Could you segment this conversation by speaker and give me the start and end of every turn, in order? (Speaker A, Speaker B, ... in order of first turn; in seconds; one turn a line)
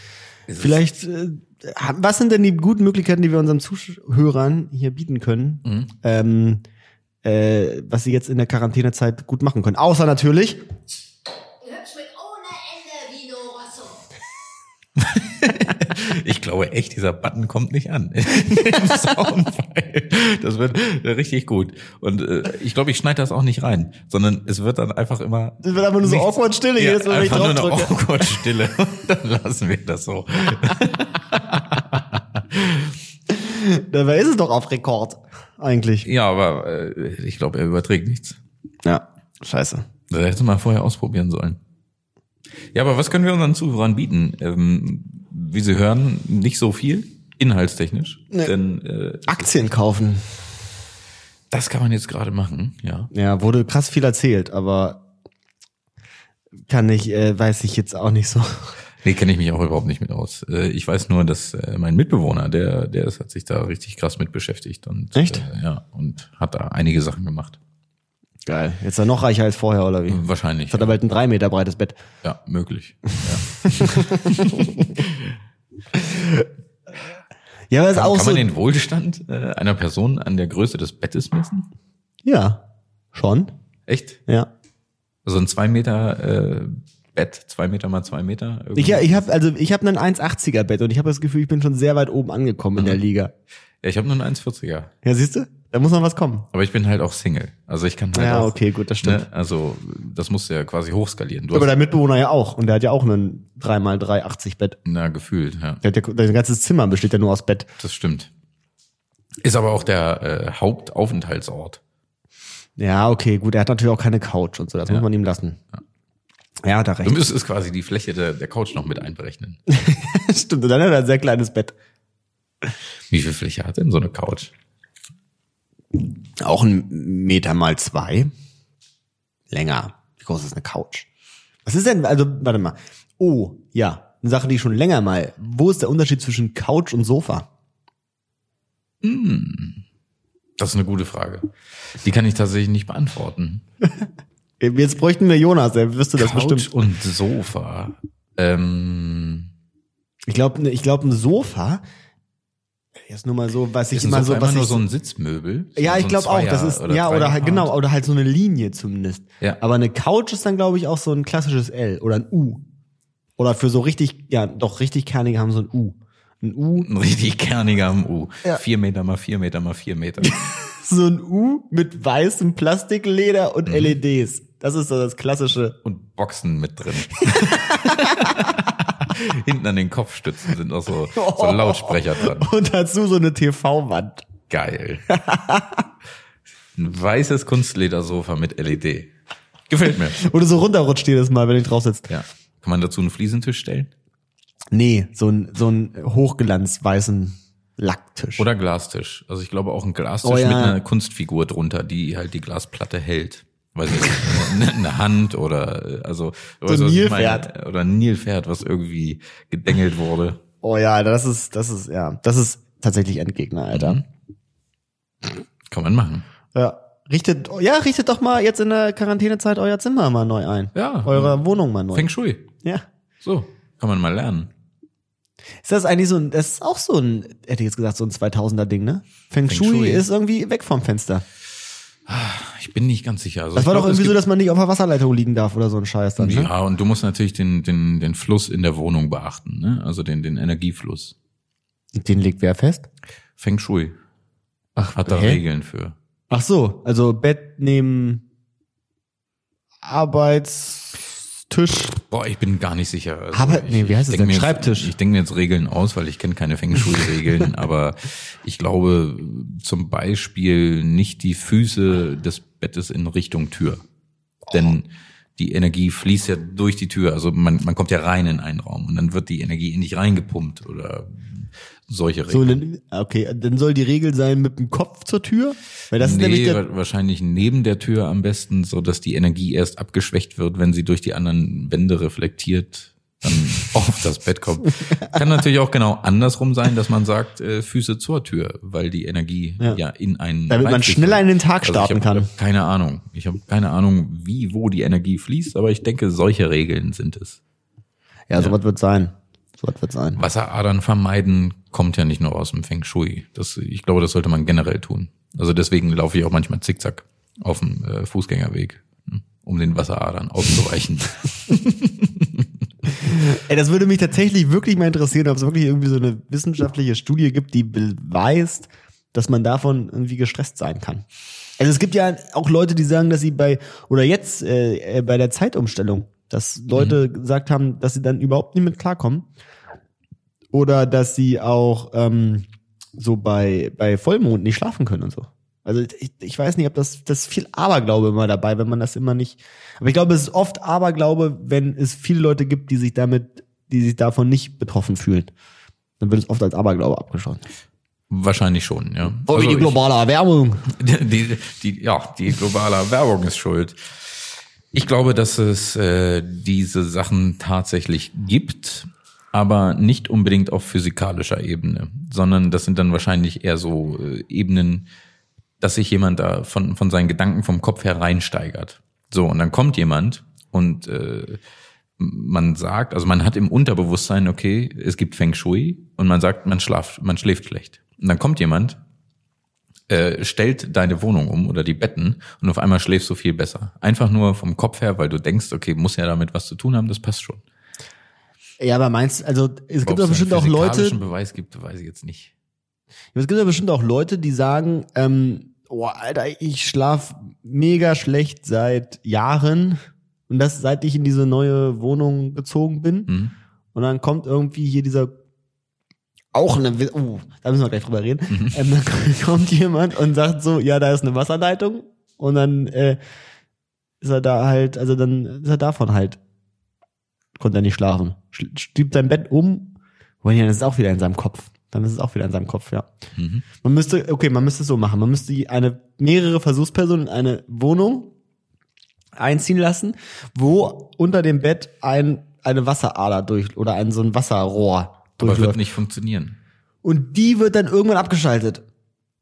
Speaker A: 0.5-0.8
Speaker B: 0.6-6.6
Speaker A: 5.7-5.9
Speaker B: 7.2-10.6
Speaker C: 11.6-14.0
Speaker A: 15.0-32.9
Speaker B: 25.6-28.2
Speaker B: 33.3-36.1
Speaker A: 36.0-38.4
Speaker B: 38.9-39.9
Speaker A: 40.1-41.6
Speaker A: 42.7-49.7
Speaker B: 49.3-50.4
Speaker A: 51.5-53.1
Speaker B: 53.1-55.0
Speaker B: 56.7-58.7
Speaker A: 59.0-67.6
Speaker B: 65.2-65.5
Speaker B: 68.5-72.0
Speaker A: 70.1-71.0
Speaker A: 72.2-75.3
Speaker B: 73.6-75.0
Speaker B: 75.9-76.5
Speaker B: 77.7-78.5
Speaker A: 77.9-81.7
Speaker B: 82.2-82.6
Speaker B: 83.1-83.5
Speaker A: 83.9-84.2
Speaker A: 85.2-89.2
Speaker B: 88.8-93.3
Speaker A: 93.8-94.9
Speaker B: 95.0-96.5
Speaker A: 96.5-101.7
Speaker B: 98.1-99.2
Speaker B: 101.5-104.8
Speaker A: 104.9-105.8
Speaker B: 105.8-107.7
Speaker A: 107.8-108.3
Speaker A: 109.4-111.8
Speaker B: 112.8-115.6
Speaker B: 116.6-117.2
Speaker A: 117.0-119.6
Speaker B: 119.7-121.8
Speaker A: 123.1-124.5
Speaker B: 126.4-128.3
Speaker B: 129.5-131.1
Speaker B: 131.7-137.5
Speaker A: 139.0-139.8
Speaker A: 140.6-143.6
Speaker B: 144.6-146.7
Speaker A: 146.2-149.5
Speaker B: 150.3-151.8
Speaker B: 153.1-154.8
Speaker A: 153.9-157.7
Speaker B: 155.8-162.6
Speaker B: 163.4-166.9
Speaker A: 166.8-170.5
Speaker B: 170.2-175.8
Speaker A: 173.7-174.0
Speaker A: 175.8-182.5
Speaker B: 177.2-178.6
Speaker B: 181.1-184.3
Speaker A: 184.5-185.1
Speaker B: 185.1-185.9
Speaker A: 186.8-189.1
Speaker A: 189.7-190.2
Speaker B: 189.8-192.1
Speaker A: 192.1-193.9
Speaker B: 194.7-198.5
Speaker A: 198.4-210.4
Speaker B: 200.2-200.8
Speaker B: 206.7-207.5
Speaker B: 210.6-214.0
Speaker A: 213.7-214.1
Speaker A: 215.7-216.3
Speaker B: 216.5-222.1
Speaker A: 220.8-222.5
Speaker A: 223.2-224.5
Speaker B: 225.6-231.2
Speaker A: 229.5-230.1
Speaker A: 232.1-234.2
Speaker B: 233.6-236.5
Speaker A: 236.2-241.2
Speaker B: 241.9-242.9
Speaker A: 243.4-243.9
Speaker B: 244.8-245.4
Speaker A: 244.8-246.0
Speaker B: 246.3-248.2
Speaker B: 249.8-252.0
Speaker A: 252.1-263.8
Speaker B: 253.3-254.9
Speaker A: 264.5-272.6
Speaker B: 272.3-276.6
Speaker A: 276.0-297.4
Speaker B: 290.5-292.3
Speaker B: 298.3-300.2
Speaker A: 300.2-312.5
Speaker B: 313.0-321.1
Speaker B: 321.6-329.3
Speaker B: 330.5-345.3
Speaker B: 346.0-347.4
Speaker A: 348.1-349.8
Speaker B: 349.2-350.7
Speaker A: 350.7-364.9
Speaker A: 365.6-371.4
Speaker A: 372.0-378.8
Speaker A: 379.9-387.4
Speaker B: 388.6-391.0
Speaker A: 389.8-392.3
Speaker B: 393.1-403.1
Speaker A: 403.1-403.3
Speaker B: 403.7-405.1
Speaker B: 406.3-413.0
Speaker A: 408.3-408.6
Speaker B: 414.0-416.2
Speaker B: 417.4-422.9
Speaker A: 423.2-423.4
Speaker B: 423.6-428.1
Speaker B: 429.2-435.6
Speaker A: 435.2-436.4
Speaker B: 436.8-438.6